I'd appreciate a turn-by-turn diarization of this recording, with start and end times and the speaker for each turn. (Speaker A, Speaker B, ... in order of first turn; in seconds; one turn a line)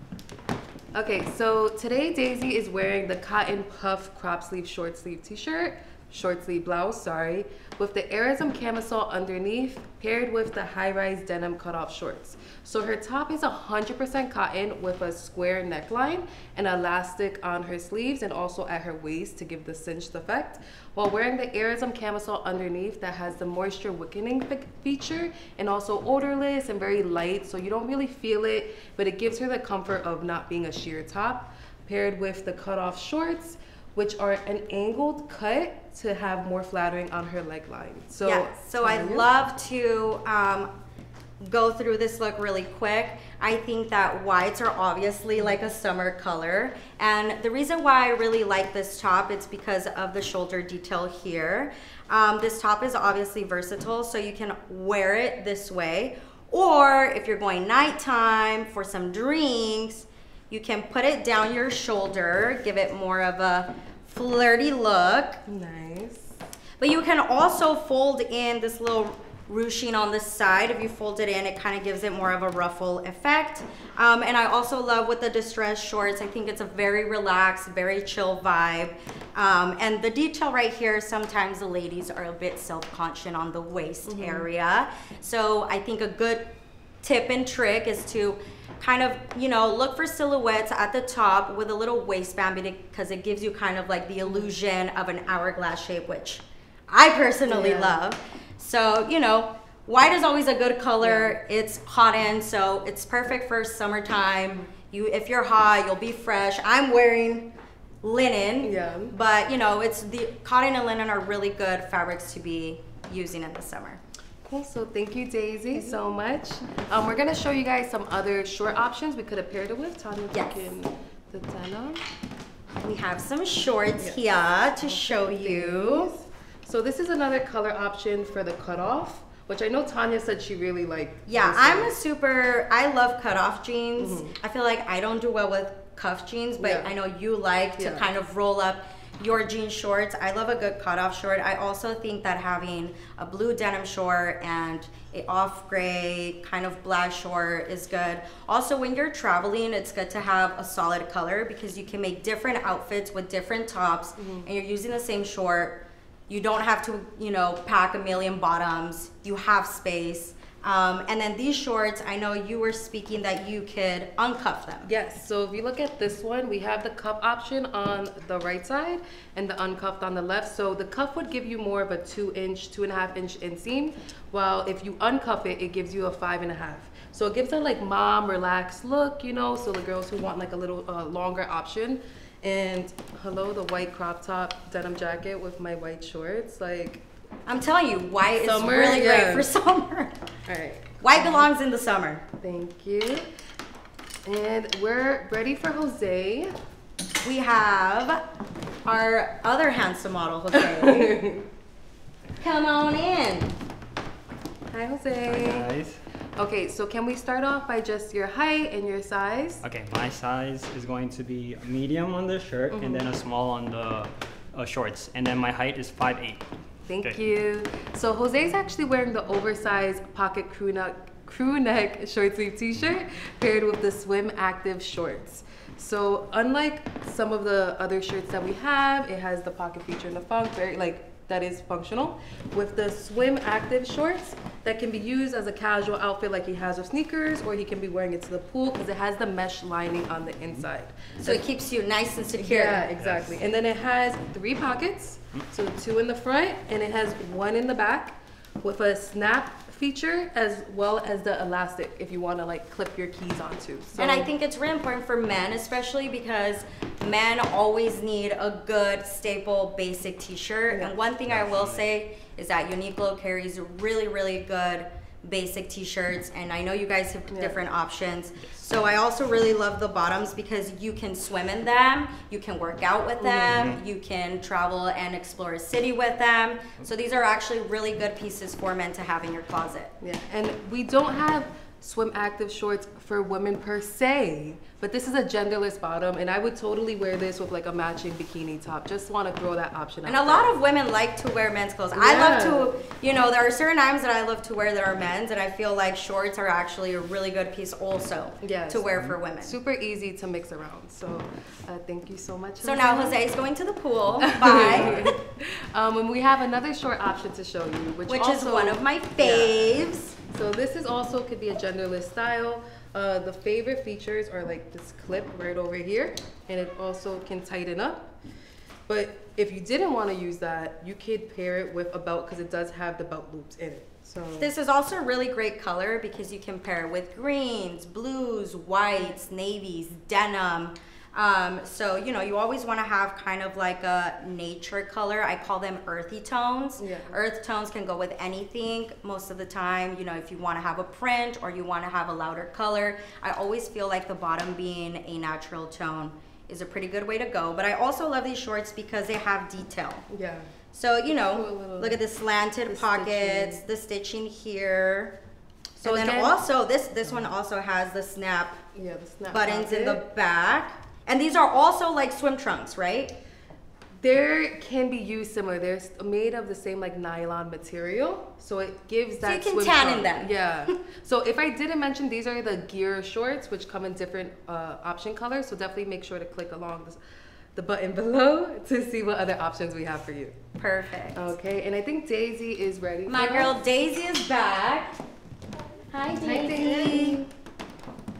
Speaker A: 0.9-39.3
Speaker B: 38.2-40.7
Speaker B: 41.4-65.4
Speaker A: 65.5-66.4
Speaker B: 66.8-86.5
Speaker A: 84.1-84.5
Speaker B: 87.0-107.5
Speaker A: 94.2-94.5
Speaker A: 97.5-98.0
Speaker A: 101.0-101.4
Speaker B: 108.0-114.0
Speaker A: 108.6-109.1
Speaker A: 114.4-122.0
Speaker B: 120.3-120.7
Speaker B: 122.8-126.1
Speaker A: 124.8-131.9
Speaker B: 131.3-164.9
Speaker A: 134.0-134.3
Speaker A: 136.6-136.9
Speaker A: 137.8-138.1
Speaker A: 154.2-154.5
Speaker A: 164.9-187.0
Speaker B: 187.5-190.1
Speaker A: 188.4-189.5
Speaker A: 190.5-191.5
Speaker B: 191.0-192.2
Speaker A: 192.4-193.3
Speaker A: 194.2-196.5
Speaker B: 197.2-198.2
Speaker B: 198.8-201.2
Speaker A: 200.5-201.5
Speaker B: 202.4-203.6
Speaker A: 204.7-205.7
Speaker C: 205.3-206.0
Speaker A: 206.4-209.6
Speaker C: 209.6-216.5
Speaker A: 212.7-213.1
Speaker A: 216.9-241.4
Speaker B: 241.2-242.9
Speaker A: 242.4-254.3
Speaker C: 243.0-243.4
Speaker B: 254.0-279.9
Speaker C: 261.3-261.8
Speaker A: 267.3-267.6
Speaker A: 273.2-273.7
Speaker A: 280.0-290.5
Speaker B: 290.1-299.5
Speaker A: 291.9-292.8
Speaker A: 298.4-298.9
Speaker A: 299.4-303.2
Speaker B: 302.6-305.1
Speaker A: 304.2-318.1
Speaker C: 304.6-305.1
Speaker B: 308.1-310.2
Speaker A: 318.9-324.5
Speaker B: 324.4-350.1
Speaker A: 336.8-337.2
Speaker A: 350.1-350.5
Speaker B: 350.7-355.2
Speaker A: 351.1-352.0
Speaker A: 352.7-353.6
Speaker A: 355.8-356.4
Speaker B: 355.8-358.6
Speaker A: 358.8-360.0
Speaker B: 359.3-363.1
Speaker A: 364.0-377.0
Speaker B: 369.2-370.4
Speaker A: 377.6-380.4
Speaker B: 380.6-381.3
Speaker A: 381.1-383.6
Speaker B: 383.1-385.0
Speaker B: 385.9-387.3
Speaker A: 386.1-387.2